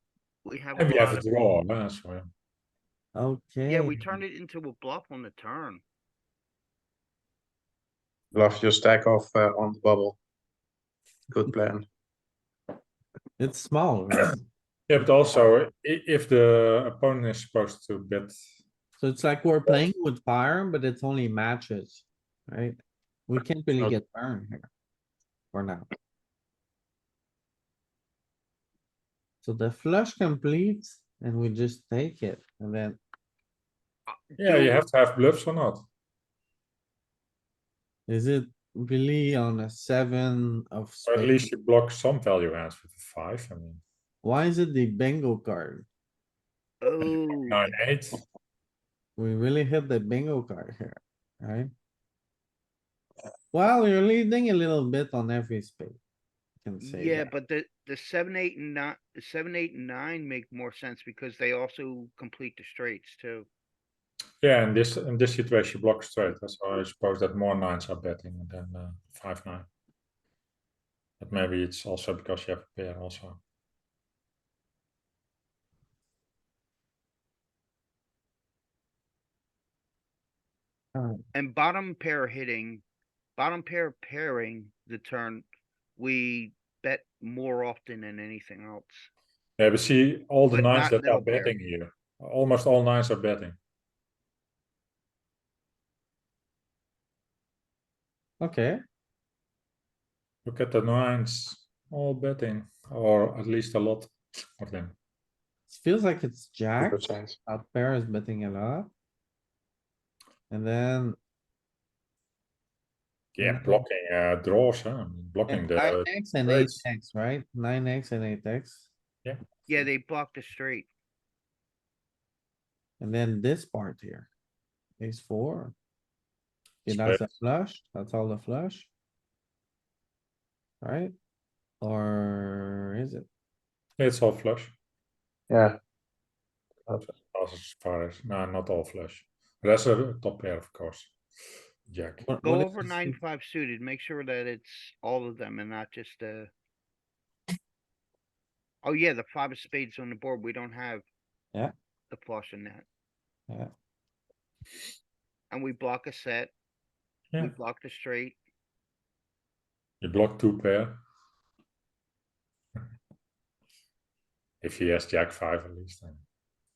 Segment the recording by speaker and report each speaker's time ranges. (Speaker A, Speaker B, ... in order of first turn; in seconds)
Speaker A: 0.5-1.3, 3.7-5.8, 34.1-34.9, 46.8-47.7, 56.8-63.5, 81.3-82.8, 83.4-85.5, 86.0-89.1, 90.5-91.5, 119.7-120.9, 142.4-146.5, 148.8-151.1, 152.1-152.8, 155.5-156.5, 157.4-158.4
Speaker B: 0.8-2.3, 14.9-18.4, 34.4-35.9, 41.1-43.8, 47.4-48.2, 64.4-69.7, 71.2-73.4, 89.6-93.6, 100.5-105.0, 113.3-116.8, 126.9-127.3, 134.0-134.7, 137.3-141.1, 141.9-142.3, 160.0-161.0, 164.6-166.2
Speaker C: 3.1-4.1, 13.4-14.4, 19.0-22.8, 23.3-24.7, 25.5-25.9, 29.4-33.0, 38.1-41.5, 44.2-45.9, 49.2-51.7, 53.5-56.0, 56.6-57.3, 81.0-81.2, 98.4-98.8, 105.7-108.9, 110.5-111.2, 113.4-113.8, 115.5-118.9, 123.0-124.3, 125.0-125.7, 126.8-128.9, 130.8-131.1, 131.8-133.3, 142.2-143.2
Speaker D: 8.3-10.2, 11.3-11.9, 106.8-107.4, 135.5-135.8, 136.9-137.1